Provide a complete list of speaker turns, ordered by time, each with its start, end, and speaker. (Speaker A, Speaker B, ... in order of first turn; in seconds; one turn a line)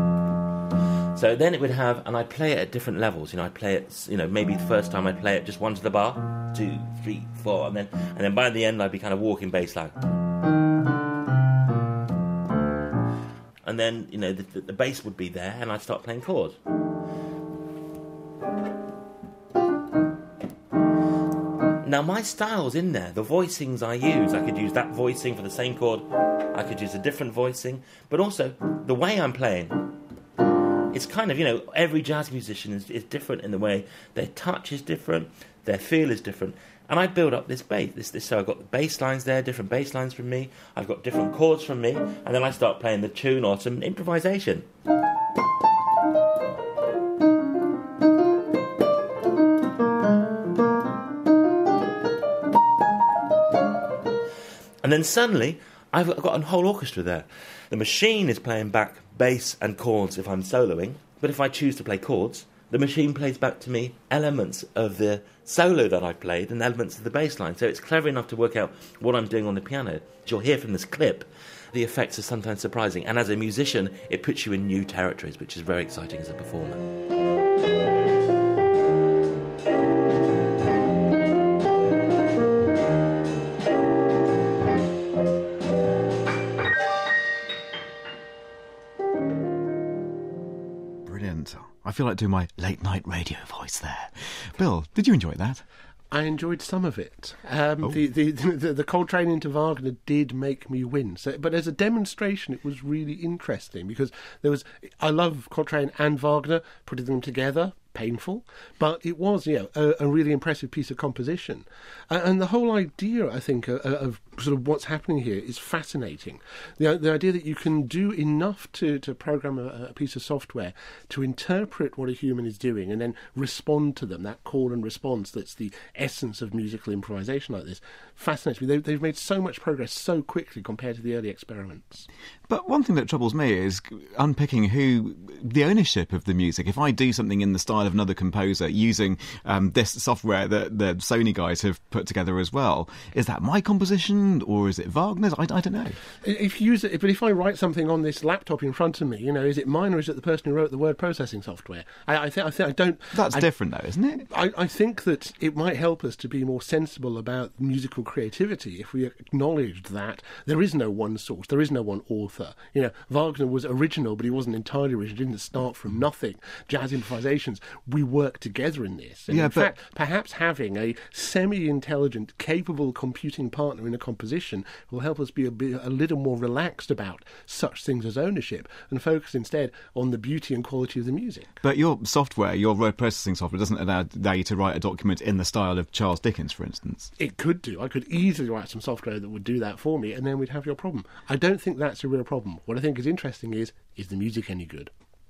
Speaker A: 1.1-9.9
Speaker A: 13.6-16.6
Speaker A: 21.8-29.9
Speaker A: 30.9-44.6
Speaker A: 54.8-76.8
Speaker B: 91.0-95.6
Speaker C: 96.1-132.1
Speaker B: 132.5-146.0
Speaker C: 146.2-153.4
Speaker B: 153.1-154.2
Speaker C: 154.3-181.5
Speaker B: 169.3-169.7
Speaker B: 181.6-187.1
Speaker C: 187.2-194.9